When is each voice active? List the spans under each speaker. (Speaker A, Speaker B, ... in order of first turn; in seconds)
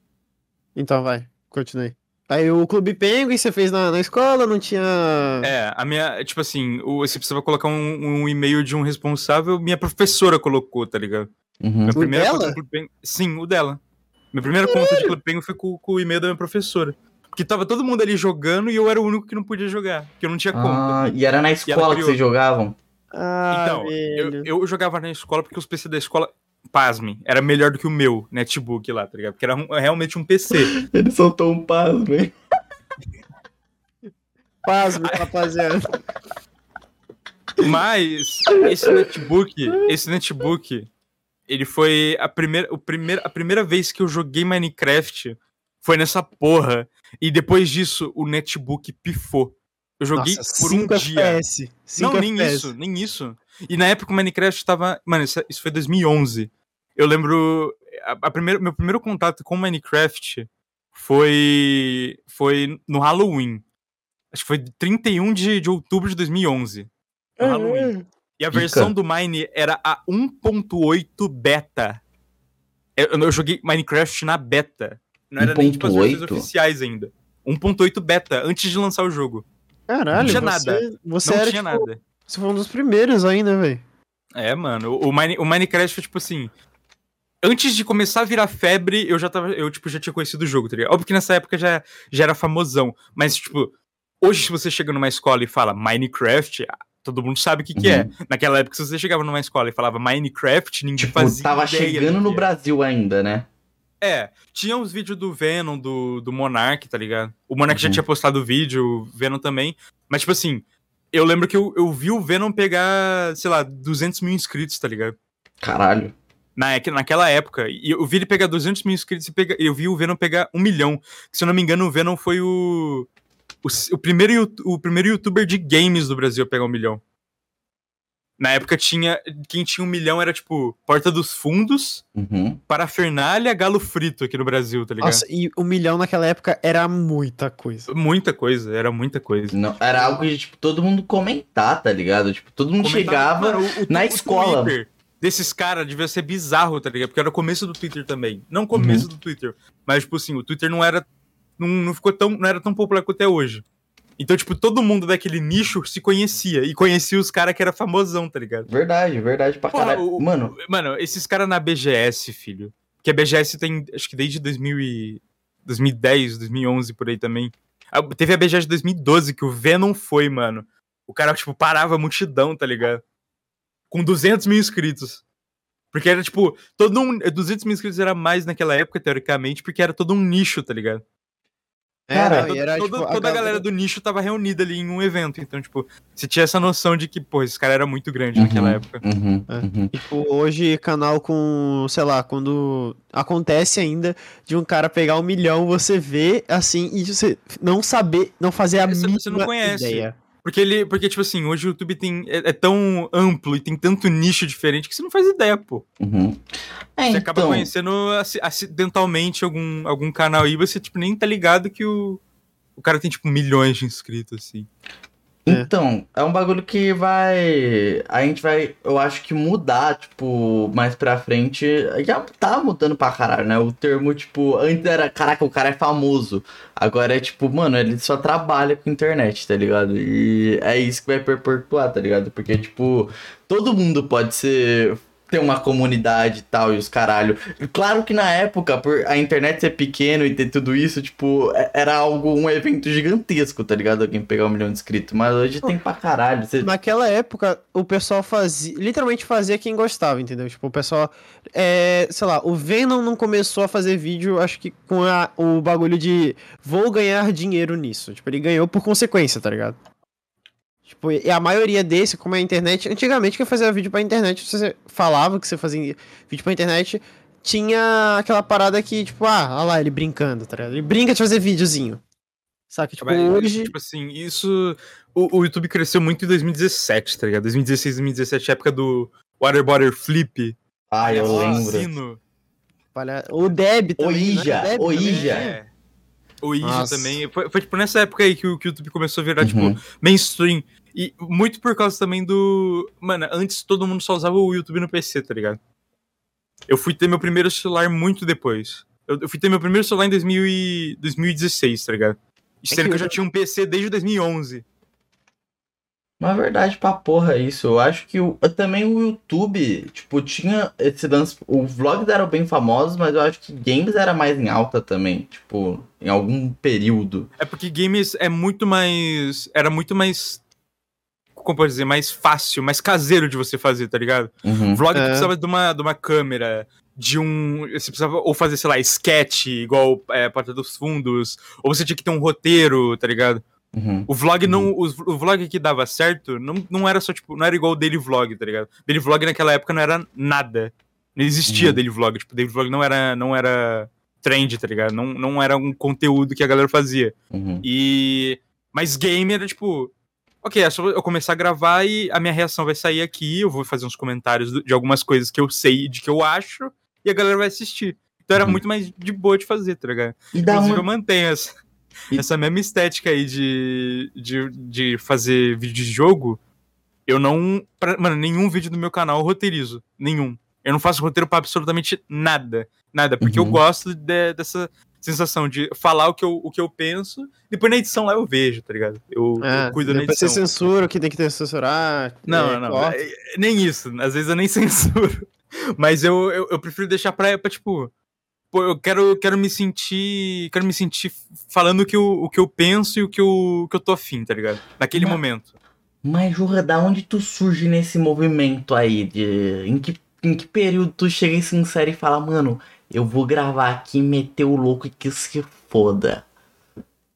Speaker A: 0.8-5.5, 11.9-12.6, 14.7-15.1, 23.1-24.5, 34.6-36.0, 50.1-52.7, 79.9-83.8, 135.0-137.9, 182.1-183.6, 189.5-200.1, 246.6-259.8, 260.9-272.0, 272.7-273.7, 281.2-281.7, 282.9-285.6, 286.6-287.2, 302.7-303.1, 324.9-325.3, 379.4-383.0
Speaker B: 5.4-11.3, 11.8-13.8, 14.3-21.0, 21.7-22.2, 23.5-30.7, 35.0-35.3, 37.6-40.9, 41.5-51.4, 52.0-63.6, 64.3-66.9, 67.4-72.0, 73.0-79.4, 80.2-82.0, 84.3-86.5, 87.4-102.5, 104.0-115.1, 116.5-123.1, 123.6-127.0, 128.4-132.0, 132.7-135.2, 137.9-139.6, 142.8-151.0, 151.6-153.6, 154.2-158.7, 159.7-173.0, 173.9-175.2, 175.9-181.0, 182.3-189.0, 198.7-205.8, 207.1-212.2, 212.8-214.7, 273.0-282.2, 284.8-285.7, 286.4-295.6, 296.7-304.6, 317.4-320.4, 321.4-333.4, 334.1-349.9, 350.4-361.5, 362.1-366.4, 367.1-380.5, 382.3-387.9, 388.5-395.5
Speaker C: 11.6-12.0, 20.5-22.8, 30.7-32.3, 38.7-38.9, 67.4-68.0, 68.5-68.9, 75.4-76.5, 80.1-80.4, 97.8-98.1, 101.0-103.5, 107.7-108.0, 115.6-116.1, 132.2-132.6, 139.5-144.7, 148.7-149.1, 158.7-160.5, 182.1-182.5, 188.3-189.9, 206.0-206.4, 206.9-207.7, 215.4-246.7, 280.9-281.9, 284.0-285.4, 289.4-289.8, 306.2-317.3, 324.4-324.8, 333.7-334.7, 341.5-341.8, 347.3-347.6, 358.4-358.6, 360.3-360.9, 373.2-373.6, 394.9-395.2, 396.0-406.2